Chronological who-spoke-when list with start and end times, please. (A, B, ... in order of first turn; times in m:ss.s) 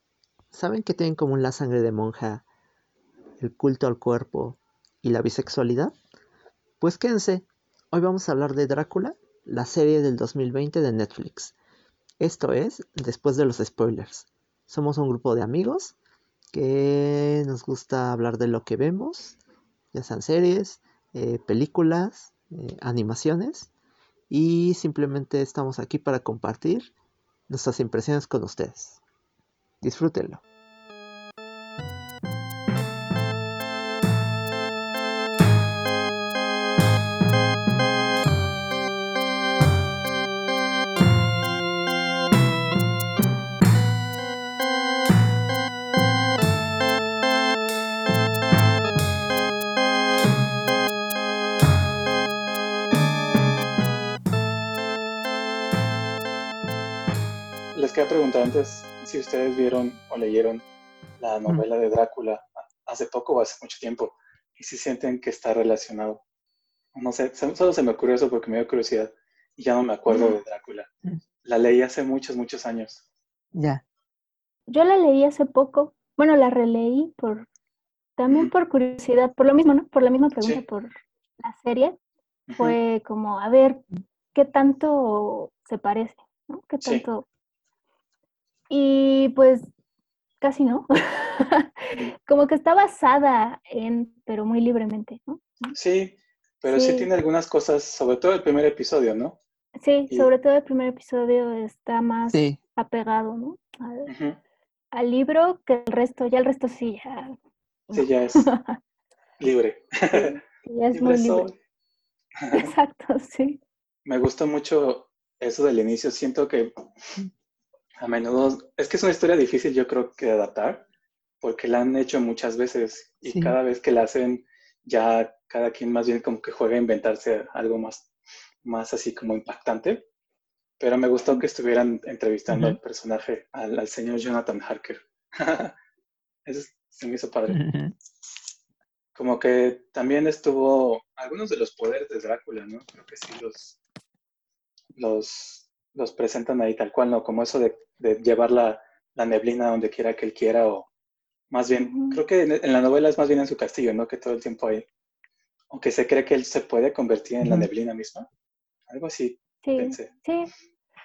0:00.5-0:02.4 A
0:03.4-0:06.0 A
0:06.8-0:11.6 A
0:12.2-0:16.0 A
0:16.5-0:19.4 A
0:19.9-0:23.7 A
0:24.3-0:26.9 A
0:27.5-0:29.0 A
0:29.8-0:30.4 A
0:57.7-1:00.7 B
1:01.2-1:06.2 B
1:06.9-1:10.9 B
1:10.1-1:10.4 C
1:11.4-1:13.0 B
1:13.6-1:13.8 A
1:14.7-1:17.5 C
1:18.2-1:20.9 C
1:21.4-1:22.0 C
1:22.5-1:22.8 B
1:22.6-1:27.2 C
1:28.7-1:29.7 C
1:30.4-1:35.7 C
1:35.7-1:39.4 B
1:36.7-1:37.1 C
1:39.8-1:44.1 C
1:42.3-1:42.6 A
1:44.1-1:44.4 B
1:44.9-1:47.4 C
1:47.9-1:48.8 C
1:47.9-1:48.5 B
1:49.4-1:50.4 B
1:50.1-1:51.5 C
1:50.9-1:51.6 B
1:52.4-1:52.7 B
1:52.5-1:53.6 C
1:54.1-1:56.8 B
1:58.0-2:00.8 B
2:01.4-2:08.1 B
2:03.2-2:03.6 A
2:08.6-2:10.0 B
2:10.8-2:15.8 B
2:12.5-2:12.8 A
2:16.5-2:17.6 B
2:17.5-2:17.9 A
2:19.2-2:23.8 B
2:25.0-2:30.9 B
2:31.5-2:34.9 B
2:31.8-2:32.2 C
2:35.7-2:38.3 B
2:37.4-2:37.7 A
2:38.9-2:40.1 B
2:39.6-2:40.5 C